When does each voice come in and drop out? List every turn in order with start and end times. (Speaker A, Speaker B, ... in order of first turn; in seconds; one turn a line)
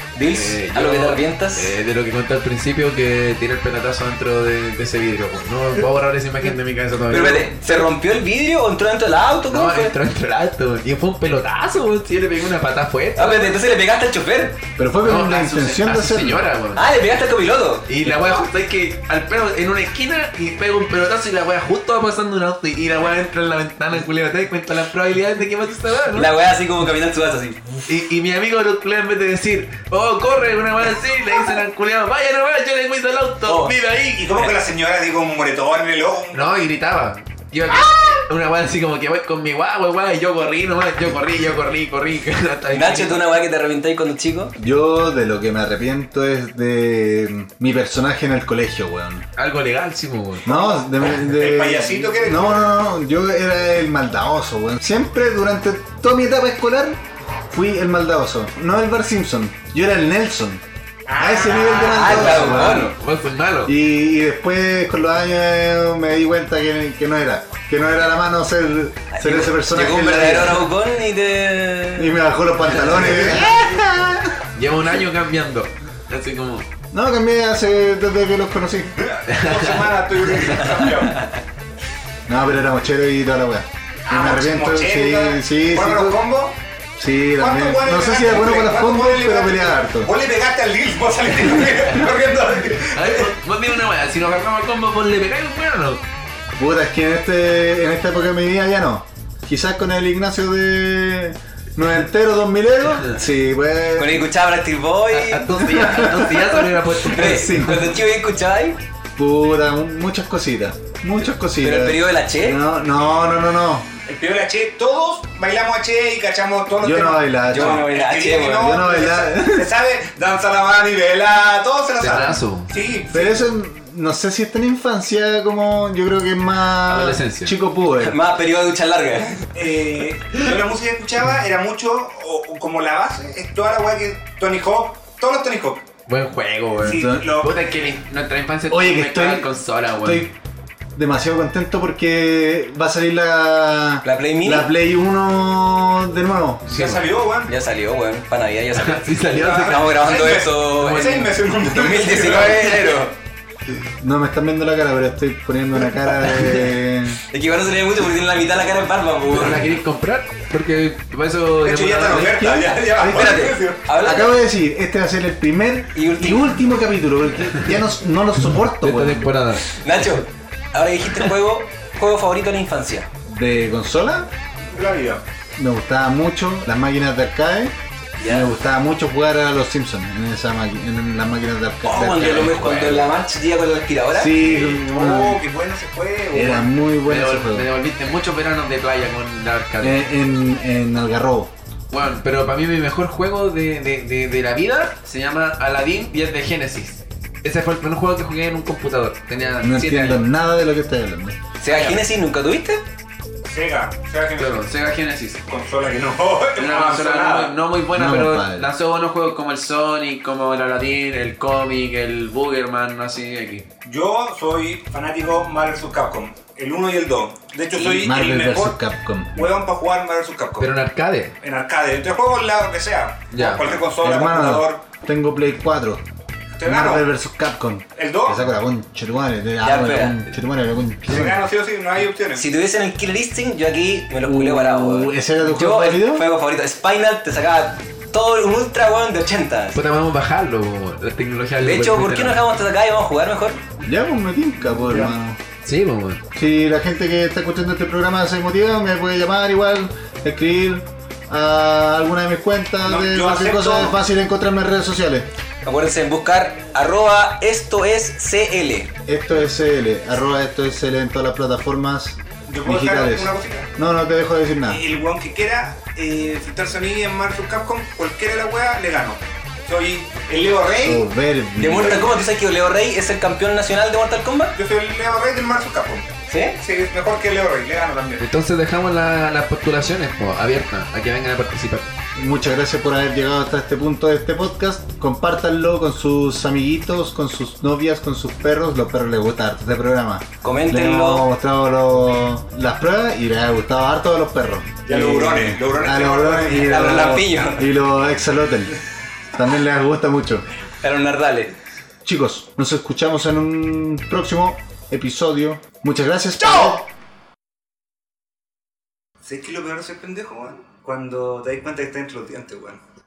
Speaker A: 0.1-1.8
Speaker B: 0.3-7.5
Speaker A: 7.1-9.9
Speaker B: 9.5-13.6
Speaker A: 13.2-14.6
Speaker C: 14.8-16.4
Speaker B: 15.0-16.9
Speaker A: 16.8-17.9
Speaker B: 17.9-26.3
Speaker A: 26.1-27.9
Speaker B: 27.9-34.5
Speaker A: 33.5-33.8
Speaker D: 34.1-36.5
Speaker B: 36.3-43.2
Speaker A: 42.7-44.5
Speaker C: 44.6-49.3
Speaker B: 49.4-50.5
Speaker C: 50.5-60.6
Speaker D: 50.5-52.9
Speaker D: 61.1-62.6
Speaker C: 61.2-62.9
Speaker A: 61.6-63.0
Speaker B: 62.1-63.7
Speaker C: 63.7-70.7
Speaker A: 69.1-72.2
Speaker C: 72.0-74.4
Speaker D: 72.8-73.4
Speaker B: 74.6-76.7
Speaker C: 76.9-79.0
Speaker D: 79.0-81.3
Speaker B: 79.3-80.9
Speaker C: 82.3-86.2
Speaker D: 84.1-86.6
Speaker C: 87.0-90.1
Speaker D: 87.4-93.3
Speaker B: 92.9-96.0
Speaker C: 96.6-104.3
Speaker A: 104.0-106.2
Speaker B: 105.1-107.8
Speaker C: 105.8-106.5
Speaker A: 107.0-108.8
Speaker C: 107.1-107.9
Speaker C: 109.2-113.9
Speaker A: 111.6-112.6
Speaker D: 114.1-123.4
Speaker C: 116.8-117.9
Speaker A: 117.5-118.8
Speaker C: 118.6-119.7
Speaker B: 122.0-122.7
Speaker C: 123.1-128.2
Speaker B: 126.9-127.5
Speaker A: 128.0-129.5
Speaker D: 129.5-135.8
Speaker B: 136.1-140.3
Speaker D: 136.8-137.7
Speaker C: 136.8-137.3
Speaker C: 138.7-139.5
Speaker C: 140.0-140.3
Speaker C: 140.9-146.8
Speaker A: 144.0-144.7
Speaker D: 146.7-147.5
Speaker B: 146.7-147.1
Speaker A: 147.5-153.2
Speaker B: 148.8-150.0
Speaker D: 149.3-153.0
Speaker B: 150.8-151.4
Speaker C: 154.0-157.2
Speaker A: 157.3-159.6
Speaker B: 159.3-162.5
Speaker D: 161.6-163.8
Speaker C: 162.2-169.3
Speaker A: 163.1-164.3
Speaker A: 165.9-166.5
Speaker B: 168.8-170.1
Speaker A: 169.7-173.1
Speaker C: 173.3-174.3
Speaker D: 174.7-175.2
Speaker C: 175.6-177.7
Speaker A: 178.2-178.5
Speaker C: 178.2-182.7
Speaker A: 181.8-184.3
Speaker B: 182.2-183.1
Speaker C: 184.1-185.4
Speaker D: 184.4-186.7
Speaker C: 186.3-187.7
Speaker B: 187.1-190.0
Speaker C: 189.8-191.5
Speaker B: 191.9-200.2
Speaker C: 199.6-201.4
Speaker A: 201.6-202.8
Speaker B: 201.7-202.0
Speaker D: 203.4-204.6
Speaker B: 204.4-205.4
Speaker D: 205.5-207.5
Speaker B: 206.6-213.7
Speaker C: 207.9-208.7
Speaker D: 213.8-218.8
Speaker C: 217.7-219.5
Speaker D: 219.3-220.7
Speaker B: 220.6-221.4
Speaker D: 221.4-224.8
Speaker B: 223.3-223.8
Speaker C: 224.0-226.0
Speaker D: 226.6-227.1
Speaker C: 226.7-231.4
Speaker D: 228.0-228.4
Speaker A: 229.6-230.2
Speaker D: 231.0-232.4
Speaker A: 232.4-239.8
Speaker C: 234.2-236.3
Speaker B: 239.7-242.4
Speaker A: 241.6-243.6
Speaker C: 243.8-245.4
Speaker B: 245.6-246.2
Speaker C: 246.4-255.3
Speaker D: 252.8-254.0
Speaker A: 255.6-258.9
Speaker C: 259.1-264.8
Speaker D: 262.5-263.7
Speaker D: 264.7-271.1
Speaker C: 270.7-272.1
Speaker A: 271.6-274.6
Speaker D: 274.6-276.1
Speaker A: 276.3-276.6
Speaker D: 276.6-278.2
Speaker B: 278.2-281.9
Speaker C: 282.2-298.8
Speaker A: 290.4-291.3
Speaker D: 294.9-296.8
Speaker A: 296.5-297.7
Speaker C: 299.3-300.4
Speaker A: 300.8-301.5
Speaker C: 302.0-306.9
Speaker D: 306.5-306.8
Speaker D: 309.2-312.8